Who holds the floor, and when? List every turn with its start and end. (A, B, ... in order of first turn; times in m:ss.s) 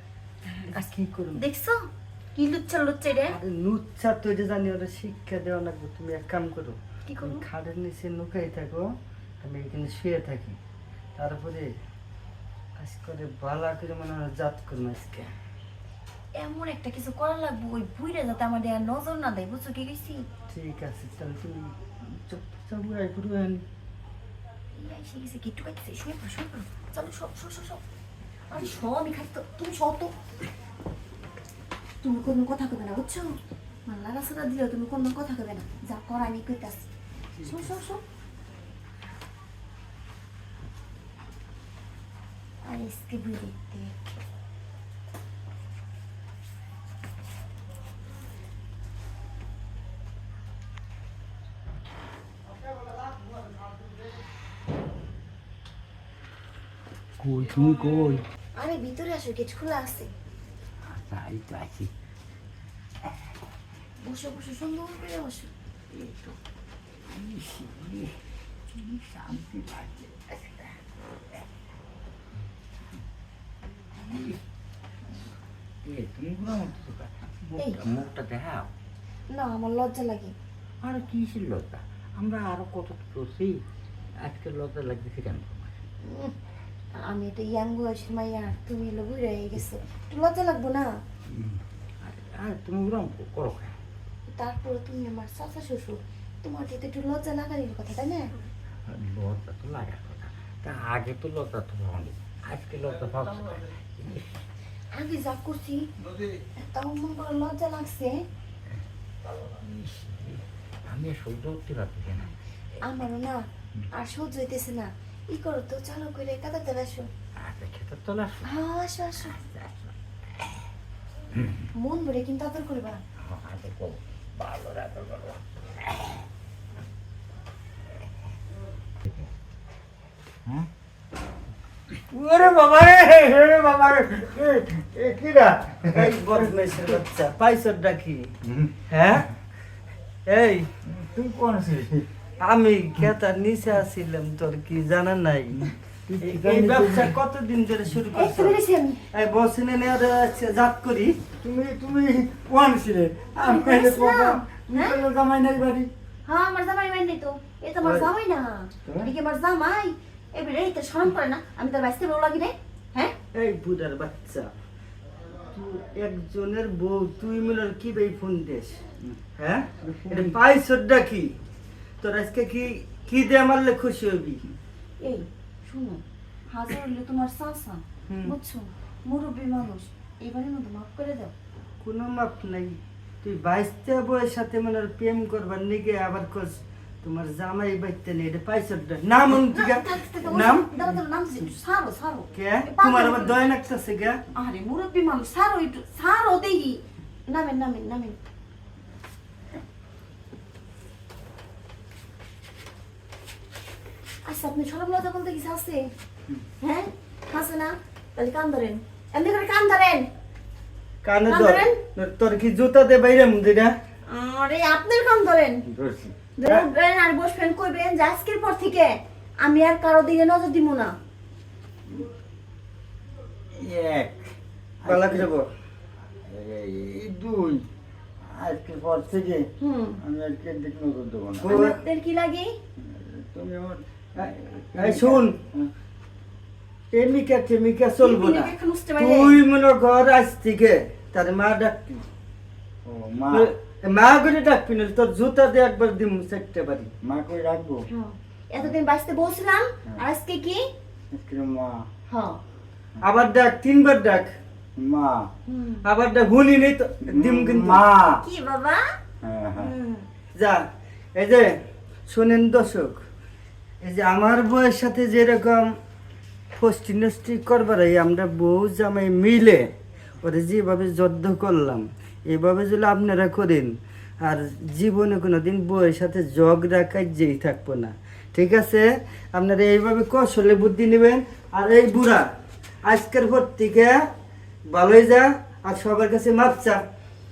0:00.5-0:03.4 A
0:00.7-0:01.4 B
0:03.3-0:08.9 B
0:07.1-0:07.4 A
0:09.4-0:10.6 B
0:11.2-0:11.7 B
0:12.8-0:15.3 B
0:16.4-0:20.2 A
0:20.5-0:23.6 B
0:24.7-0:27.8 A
0:28.5-0:30.1 A
0:32.0-0:33.4 A
0:33.9-0:36.9 A
0:37.4-0:38.0 A
0:42.6-0:44.2 A
0:57.2-0:58.2 C
0:58.6-1:00.1 A
1:00.8-1:01.9 C
1:04.0-1:05.5 A
1:05.9-1:06.4 C
1:07.1-1:08.1 C
1:08.8-1:10.7 C
1:14.0-1:14.4 C
1:15.8-1:18.7 C
1:17.6-1:17.8 A
1:19.3-1:20.4 A
1:20.8-1:23.6 C
1:24.2-1:25.8 C
1:26.0-1:26.4 A
1:27.0-1:31.0 A
1:31.3-1:33.8 C
1:34.3-1:38.4 A
1:38.9-1:44.4 C
1:44.9-1:45.9 A
1:46.6-1:48.2 A
1:49.2-1:52.4 C
1:52.8-1:53.4 A
1:53.9-1:57.1 A
1:57.4-1:58.5 C
1:58.4-1:59.4 A
1:59.2-1:59.9 C
2:01.3-2:01.6 C
2:01.8-2:03.0 A
2:03.2-2:05.4 C
2:12.1-2:16.5 C
2:15.9-2:18.3 B
2:18.9-2:19.3 B
2:20.3-2:20.7 B
2:20.8-2:22.1 C
2:22.4-2:25.6 B
2:25.6-2:27.2 C
2:26.2-2:28.6 B
2:28.1-2:29.0 A
2:29.1-2:31.2 B
2:31.4-2:35.9 C
2:33.4-2:35.0 A
2:36.3-2:43.2 A
2:37.8-2:38.1 B
2:43.3-2:44.5 B
2:45.5-2:48.8 B
2:49.4-2:51.3 B
2:49.8-2:50.3 C
2:52.0-2:54.4 B
2:55.0-3:01.3 A
2:58.1-2:58.4 B
3:01.8-3:10.9 B
3:09.3-3:13.4 A
3:12.3-3:14.2 B
3:14.3-3:18.2 A
3:24.2-3:25.9 A
3:26.6-3:30.1 A
3:31.0-3:33.8 B
3:31.3-3:31.8 A
3:34.1-3:35.6 A
3:35.7-3:36.2 C
3:36.4-3:40.9 A
3:43.6-3:45.3 C
3:44.8-3:45.5 B
3:46.3-3:47.7 C
3:48.3-3:49.4 C
3:49.6-3:50.0 A
3:50.0-3:51.5 C
3:51.4-3:51.8 B
3:51.4-3:52.5 A
3:52.8-3:55.7 C
3:54.2-3:55.4 B
3:56.9-4:02.1 B
3:58.0-3:59.4 A
4:02.8-4:03.5 C
4:03.3-4:06.9 B
4:07.0-4:07.9 C
4:07.9-4:10.7 A
4:11.1-4:11.9 C
4:12.1-4:12.4 A
4:13.0-4:14.3 B
4:14.8-4:15.3 C
4:15.5-4:15.8 A
4:15.8-4:17.8 B
4:17.0-4:18.2 C
4:18.2-4:18.8 A
4:19.2-4:19.7 C
4:19.6-4:20.1 A
4:20.3-4:20.6 B
4:21.2-4:21.5 B
4:22.1-4:23.0 B
4:23.8-4:25.7 B
4:26.5-4:29.7 B
4:30.2-4:42.3 B
4:42.8-4:44.0 B
4:44.7-4:46.8 B